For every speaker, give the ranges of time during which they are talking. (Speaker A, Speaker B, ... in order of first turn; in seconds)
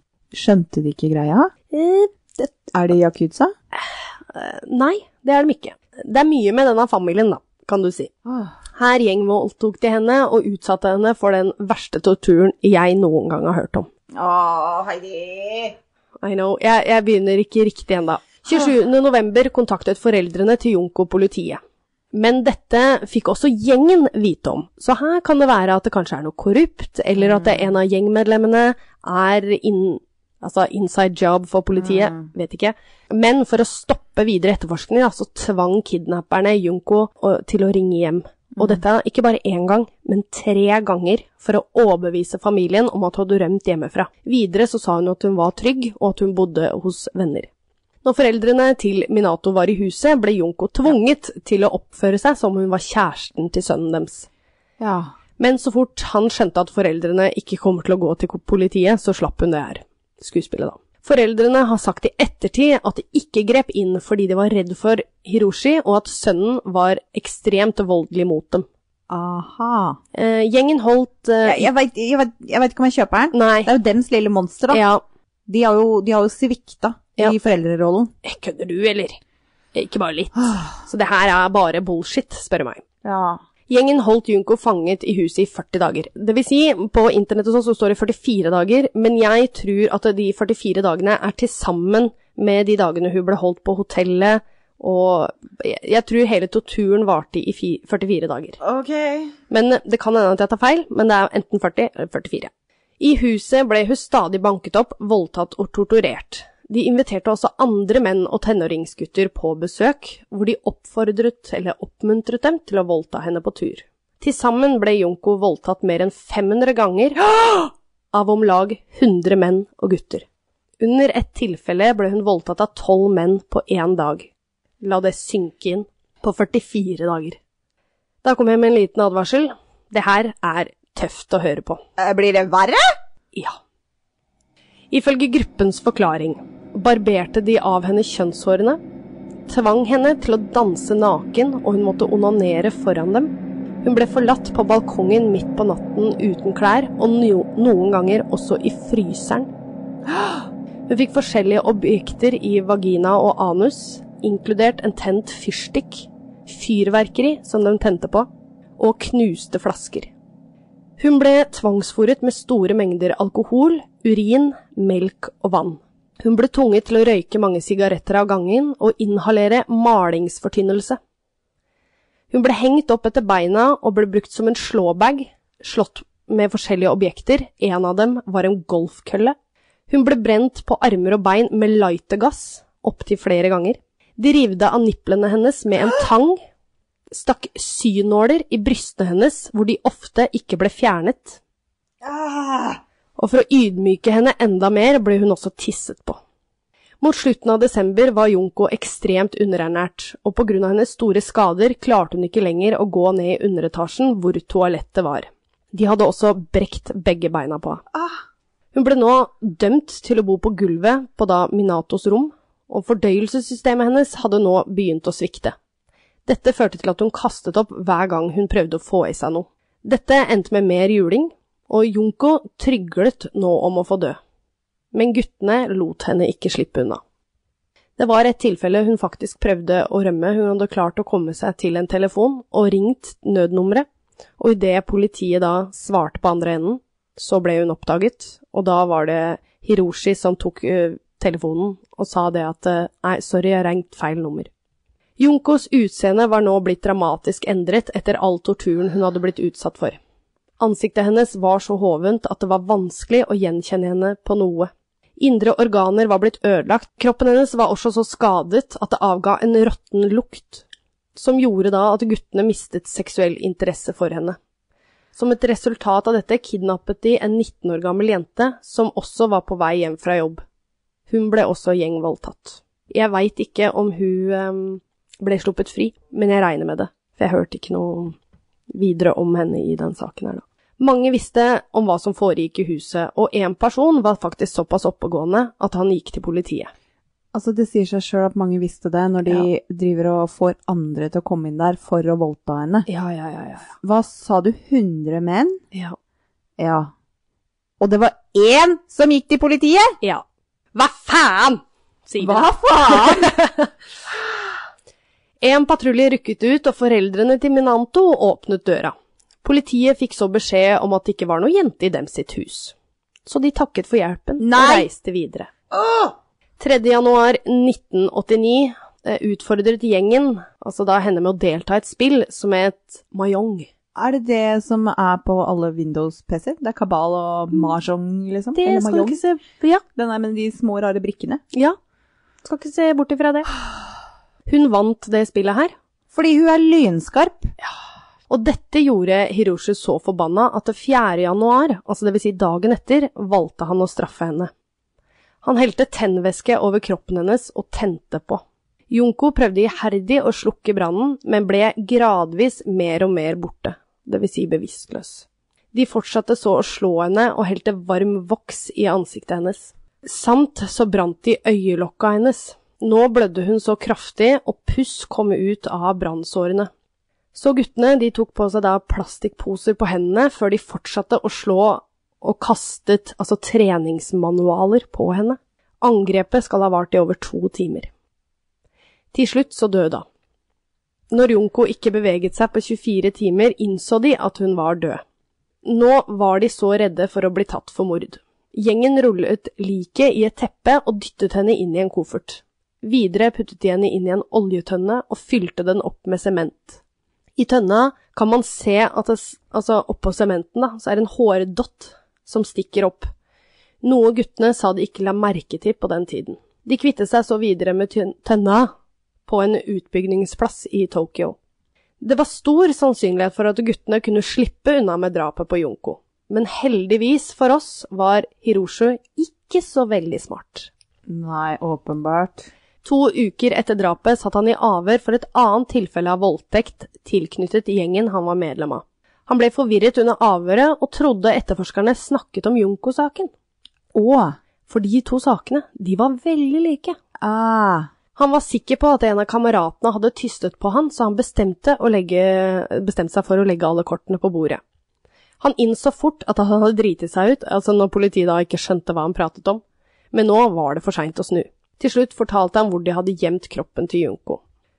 Speaker A: 0.3-1.5, 2.7-3.5, 8.2-8.6, 14.1-15.8, 27.2-27.7, 31.8-32.3, 54.8-55.1, 69.1-70.0, 71.4-74.8, 75.5-78.1, 83.0-83.4, 98.6-99.3, 132.0-132.9, 192.0-192.8, 287.3-292.9, 293.8-295.6, 296.6-296.9, 297.8-300.0, 302.2-303.4, 314.4-314.9, 315.7-316.1, 323.9-329.2, 329.9-331.4, 336.1-337.5, 421.1-422.5, 433.9-434.4, 437.2-437.9
Speaker B: 1.7-2.5, 3.7-8.1, 8.7-13.9, 16.2-21.6, 22.1-47.5, 48.0-54.3, 55.4-68.7, 70.1-71.7, 73.3-73.7, 74.7-75.0, 78.2-79.2, 79.7-82.8, 83.7-98.6, 99.5-120.2, 120.8-124.3, 124.8-127.4, 128.2-131.8, 134.9-138.8, 139.5-143.3, 143.8-149.5, 150.9-160.1, 161.0-171.0, 172.3-179.3, 179.9-186.4, 187.1-191.4, 193.2-196.2, 197.0-207.8, 208.7-215.6, 216.3-224.2, 224.9-227.0, 228.0-233.9, 234.4-244.5, 245.2-250.0, 250.6-264.4, 265.1-270.4, 271.1-278.1, 278.7-286.7, 292.9-293.7, 300.0-303.7, 305.4-312.7, 313.3-315.5, 316.6-323.7, 328.6-329.8, 332.4-333.5, 334.5-335.7, 338.3-344.5, 345.4-366.7, 367.3-377.9, 379.1-380.1, 381.1-385.0, 385.6-396.8, 397.4-403.1, 403.8-408.7, 409.3-411.4, 412.0-420.7, 422.8-433.3, 434.7-437.0, 438.1-444.6, 445.4-449.6, 450.1-454.4